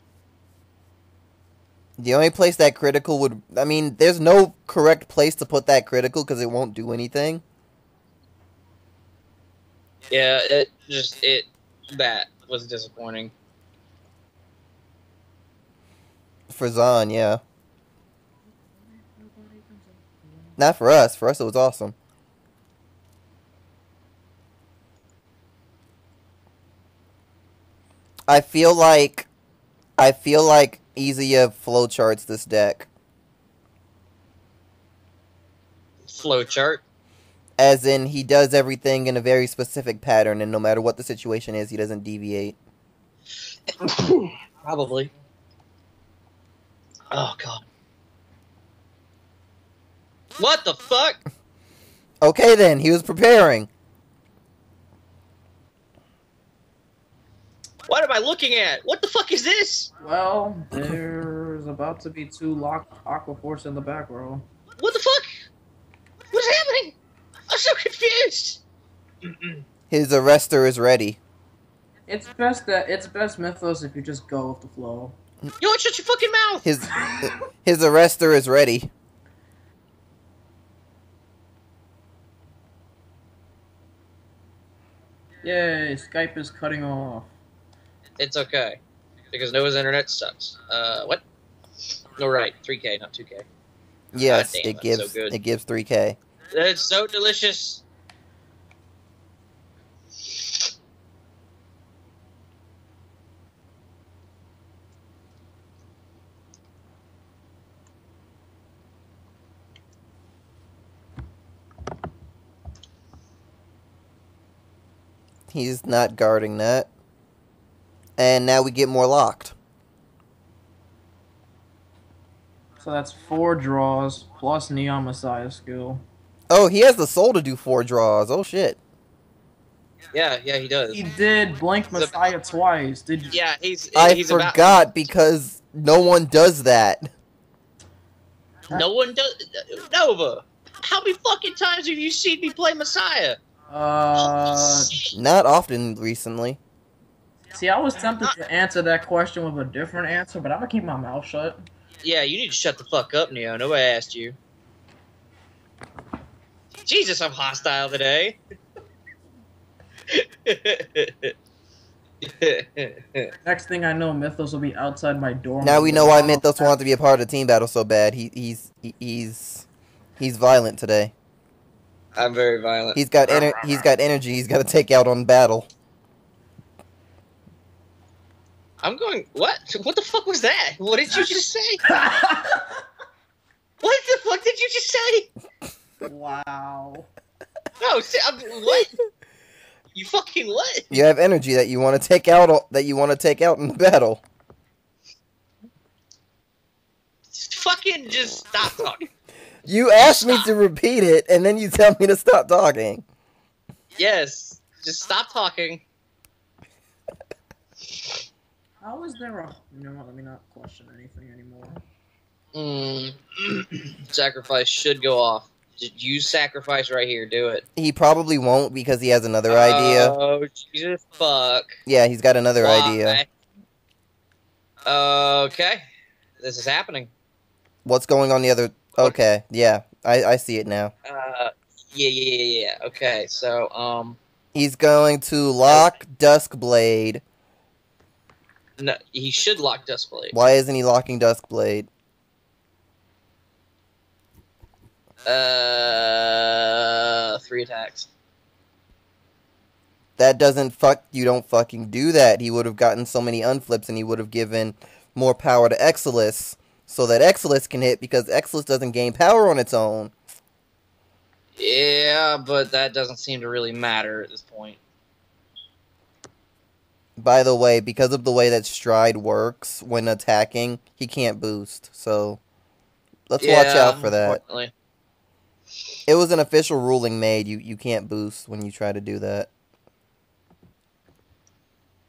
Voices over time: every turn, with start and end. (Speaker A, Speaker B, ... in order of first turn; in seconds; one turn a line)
Speaker A: 2.0-7.4
Speaker B: 10.1-13.3
Speaker A: 16.5-17.4
Speaker C: 18.6-20.6
Speaker A: 20.6-21.9
Speaker A: 28.3-29.3
Speaker A: 30.0-32.9
Speaker B: 36.0-36.8
Speaker A: 37.6-42.6
Speaker B: 43.8-45.1
Speaker B: 47.1-47.6
Speaker B: 50.4-51.2
Speaker A: 52.2-53.7
Speaker B: 57.9-59.9
Speaker C: 60.0-64.5
Speaker B: 64.8-65.3
Speaker B: 66.3-67.0
Speaker B: 67.5-68.6
Speaker B: 69.3-69.6
Speaker A: 69.9-71.2
Speaker C: 72.1-75.2
Speaker B: 75.6-76.7
Speaker A: 76.6-78.9
Speaker C: 85.4-87.3
Speaker B: 88.2-88.8
Speaker B: 89.3-91.2
Speaker B: 92.2-93.5
Speaker A: 94.1-96.2
Speaker B: 94.2-95.4
Speaker B: 96.5-97.8
Speaker A: 115.5-116.9
Speaker A: 118.2-119.5
Speaker C: 122.8-126.0
Speaker A: 126.5-128.8
Speaker B: 130.1-131.0
Speaker C: 130.9-133.4
Speaker B: 133.3-134.9
Speaker A: 133.9-137.1
Speaker B: 138.7-143.4
Speaker C: 143.7-145.0
Speaker B: 144.2-145.1
Speaker A: 145.1-146.6
Speaker C: 147.5-151.6
Speaker B: 152.0-154.4
Speaker B: 156.8-158.4
Speaker B: 160.1-161.3
Speaker B: 162.2-163.3
Speaker C: 163.4-166.8
Speaker A: 165.6-169.7
Speaker A: 170.2-171.1
Speaker B: 172.2-173.9
Speaker A: 172.9-175.7
Speaker B: 178.8-181.8
Speaker C: 181.9-182.7
Speaker B: 183.8-185.3
Speaker C: 186.0-187.1
Speaker B: 187.8-188.9
Speaker B: 189.9-191.0
Speaker A: 190.9-194.2
Speaker B: 197.3-199.1
Speaker A: 199.7-203.1
Speaker B: 200.0-200.5
Speaker B: 204.0-205.8
Speaker C: 208.8-211.8
Speaker B: 212.5-217.6
Speaker A: 217.8-220.2
Speaker B: 219.5-221.7
Speaker A: 221.9-223.2
Speaker B: 222.6-223.3
Speaker B: 224.8-225.8
Speaker B: 226.4-227.1
Speaker A: 227.8-230.9
Speaker B: 231.1-234.2
Speaker A: 234.5-237.2
Speaker B: 235.7-235.9
Speaker B: 238.8-240.4
Speaker A: 240.3-241.9
Speaker B: 245.3-248.1
Speaker A: 250.2-260.1
Speaker B: 261.6-264.8
Speaker A: 267.2-272.4
Speaker A: 273.3-274.4
Speaker B: 273.4-274.7
Speaker A: 276.1-279.5